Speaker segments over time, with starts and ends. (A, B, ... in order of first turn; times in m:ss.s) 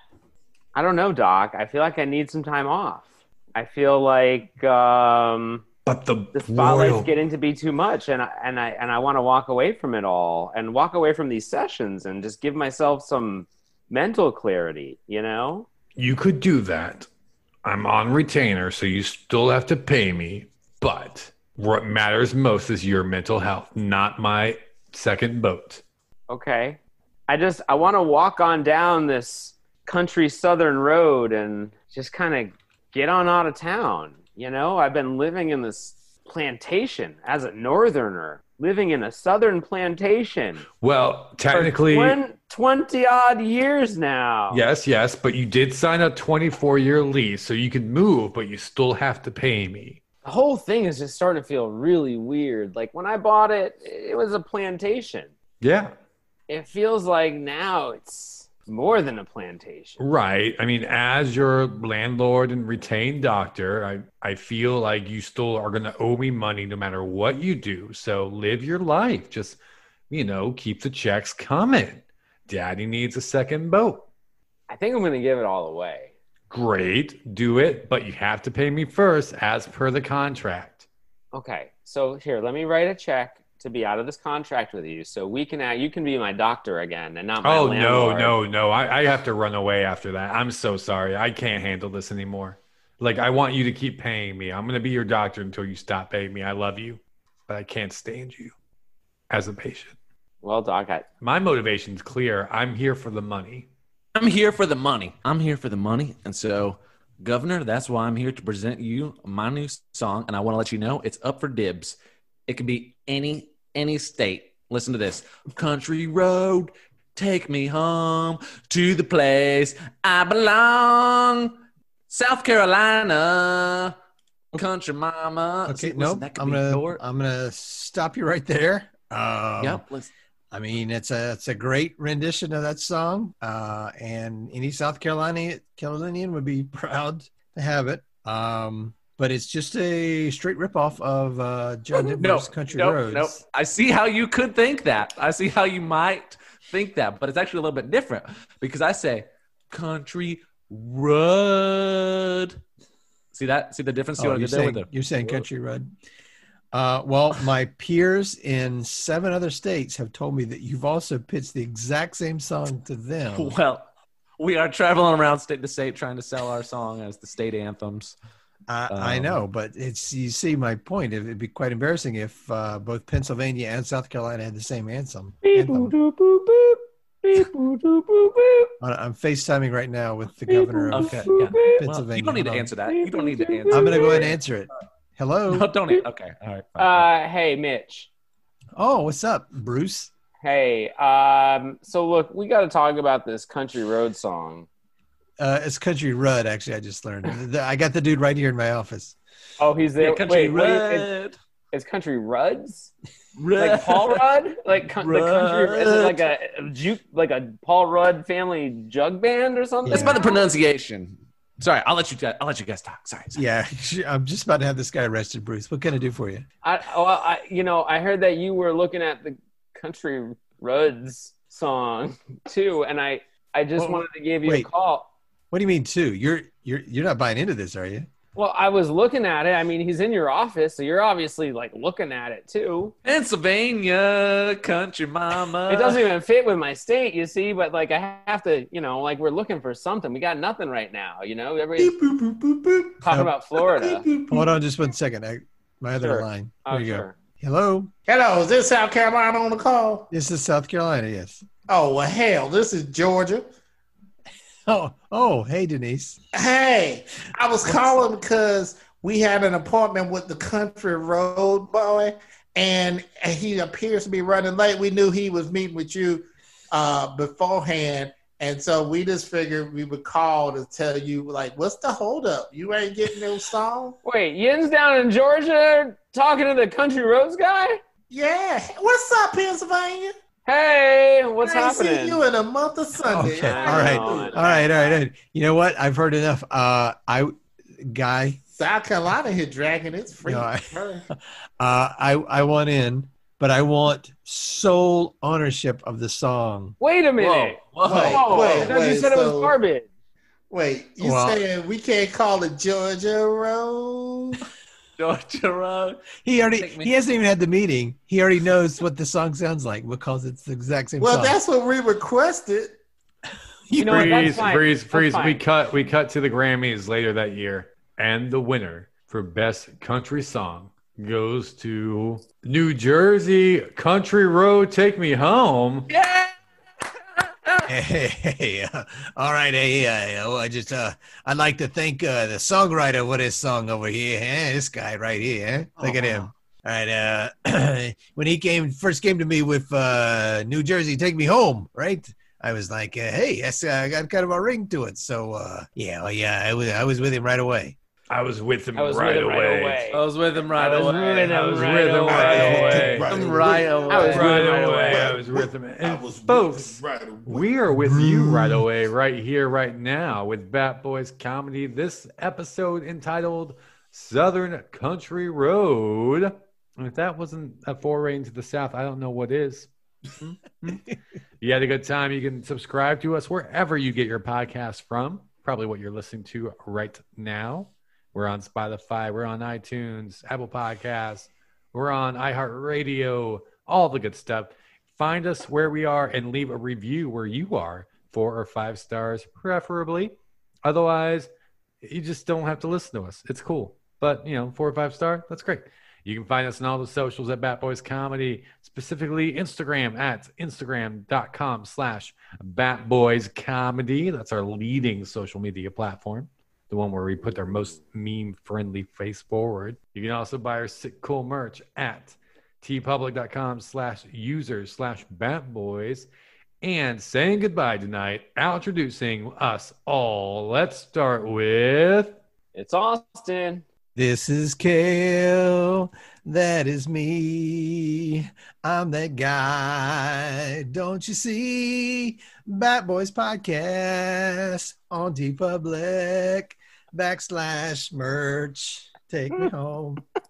0:00.8-0:05.6 A
0:05.9-0:07.1 B
0:06.3-0:15.7 A
0:16.0-0:17.1 B
0:17.6-0:25.8 B
0:26.3-0:40.6 A
0:40.8-0:42.2 B
0:41.5-0:44.6 A
0:44.5-0:50.0 B
0:50.2-0:55.3 A
0:55.6-0:55.9 B
0:56.5-1:00.0 A
1:00.0-1:09.6 B
1:10.1-1:14.1 B
1:14.7-1:16.1 A
1:16.5-1:20.9 B
1:21.3-1:28.4 A
1:27.4-1:38.5 B
1:39.3-1:40.0 B
1:40.4-1:41.1 A
1:41.2-1:43.7 B
1:44.2-2:01.6 C
2:02.1-2:04.0 C
2:04.5-2:07.0 C
2:05.7-2:09.8 D
2:09.6-2:10.1 C
2:10.5-2:23.4 D
2:22.2-2:32.6 C
2:33.3-2:35.4 C
2:34.2-2:35.9 D
2:36.7-2:43.6 D
2:43.4-2:43.8 C
2:44.4-2:48.2 C
2:48.7-2:56.0 D
2:48.9-2:49.4 C
2:55.4-2:58.7 A
2:58.8-3:02.7 D
3:00.5-3:01.8 A
3:00.9-3:04.4 C
3:02.9-3:04.3 A
3:03.7-3:05.7 D
3:05.5-3:07.1 C
3:06.8-3:08.1 A
3:08.8-3:10.1 D
3:10.4-3:14.7 A
3:15.4-3:19.2 D
3:19.6-3:21.1 A
3:20.0-3:21.4 C
3:21.7-3:22.9 A
3:23.4-3:24.2 C
3:23.6-3:30.4 A
3:25.0-3:26.3 C
3:29.8-3:30.2 D
3:29.9-3:33.4 C
3:33.4-3:36.5 D
3:36.6-3:45.1 A
3:43.8-3:44.7 D
3:45.5-3:48.1 D
3:48.4-3:52.9 A
3:53.0-3:56.1 C
3:55.7-4:01.9 A
4:01.8-4:04.5 E
4:03.0-4:04.1 A
4:04.3-4:07.9 D
4:06.0-4:07.1 A
4:08.1-4:10.1 E
4:10.1-4:11.4 D
4:11.7-4:13.5 E
4:14.7-4:16.2 D
4:16.3-4:34.0 E
4:17.6-4:18.0 D
4:34.0-4:37.8 A
4:38.1-4:40.1 E
4:40.4-4:42.2 A
4:41.4-4:44.7 E
4:43.0-4:48.4 D
4:43.3-4:44.7 A
4:48.6-4:51.1 E
4:50.2-4:56.8 D
4:56.8-4:59.9 A
4:57.2-4:58.8 C
4:57.8-4:59.6 E
5:00.5-5:04.4 E
5:01.0-5:01.4 D
5:05.0-5:06.9 C
5:06.2-5:11.4 D
5:11.0-5:12.8 E
5:13.7-5:14.5 D
5:13.8-5:15.4 A
5:13.8-5:25.9 B
5:25.9-5:26.4 C
5:27.6-5:47.8 D
5:35.8-5:36.3 C
5:48.1-5:49.8 B
5:48.8-5:53.0 A
5:49.9-5:55.0 C
5:50.6-5:53.1 B
5:52.1-5:54.3 E
5:53.9-5:55.1 A
5:54.1-6:09.7 B
5:54.9-5:57.5 E
5:57.7-5:58.6 D
6:10.2-6:10.8 B
6:11.4-6:31.3 B
6:31.8-6:56.1 B
6:56.6-7:02.2 B
7:02.6-7:03.6 A
7:04.0-7:20.0 D